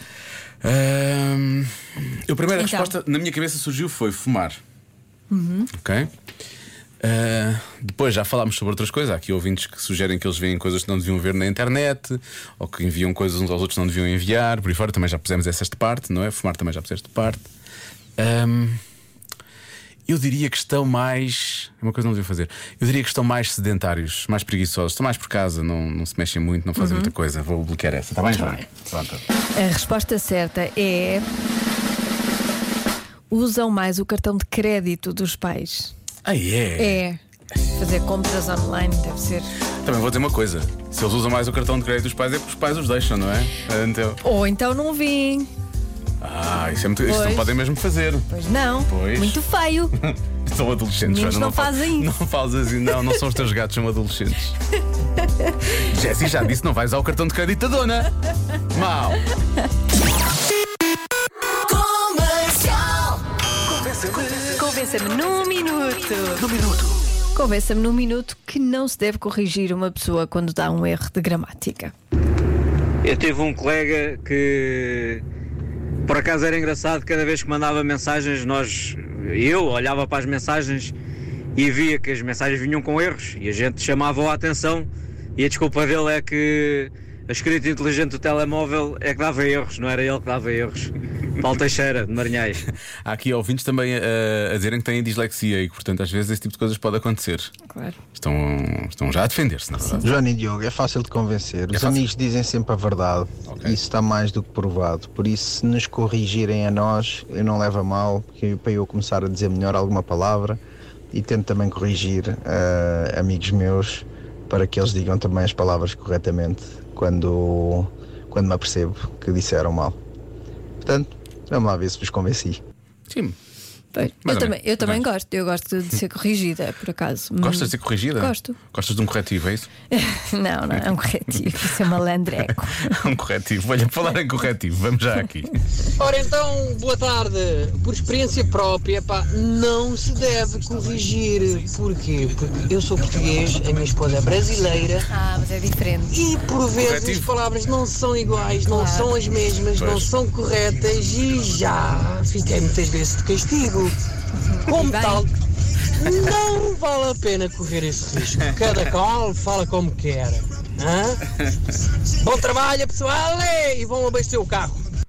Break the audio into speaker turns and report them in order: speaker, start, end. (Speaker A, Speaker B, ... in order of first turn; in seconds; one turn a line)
Speaker A: 0.6-4.6
Speaker B: 2.6-2.9
Speaker B: 5.3-5.7
Speaker A: 5.8-6.1
Speaker A: 7.0-17.5
Speaker A: 18.2-18.8
Speaker A: 20.1-29.2
Speaker B: 26.8-27.1
Speaker B: 29.6-31.2
Speaker B: 33.3-35.9
Speaker A: 36.2-37.0
Speaker B: 36.8-37.2
Speaker B: 37.8-39.5
Speaker A: 39.8-44.2
Speaker B: 44.2-45.5
Speaker A: 46.2-48.3
Speaker B: 47.0-47.6
Speaker B: 48.3-49.9
Speaker A: 48.9-49.4
Speaker A: 50.0-54.5
Speaker B: 51.0-52.1
Speaker A: 55.8-58.1
Speaker A: 58.7-59.2
Speaker B: 64.5-66.5
Speaker B: 67.3-71.9
Speaker C: 73.0-75.2
Speaker C: 76.1-80.9
Speaker C: 81.6-92.6
Speaker A: 93.0-97.5
Speaker B: 97.7-98.0
Speaker A: 98.2-100.1
Speaker B: 99.8-100.1
Speaker D: 100.0-110.6
Speaker A: 101.7-102.1
Speaker A: 103.5-103.8
Speaker D: 111.1-120.0
Speaker D: 120.8-122.6
Speaker A: 123.1-123.4
Speaker B: 123.9-128.6
Speaker A: 124.2-125.0
Speaker A: 127.4-129.7
Speaker B: 129.9-133.1
Speaker A: 132.5-135.6
Speaker E: 136.0-145.0
Speaker B: 145.1-146.2
Speaker E: 146.1-153.9
Speaker A: 146.7-147.4
Speaker B: 148.7-149.2
Speaker A: 149.7-150.1
Speaker B: 154.4-155.3
Speaker E: 154.7-155.3
Speaker E: 156.1-161.2
Speaker E: 162.2-164.8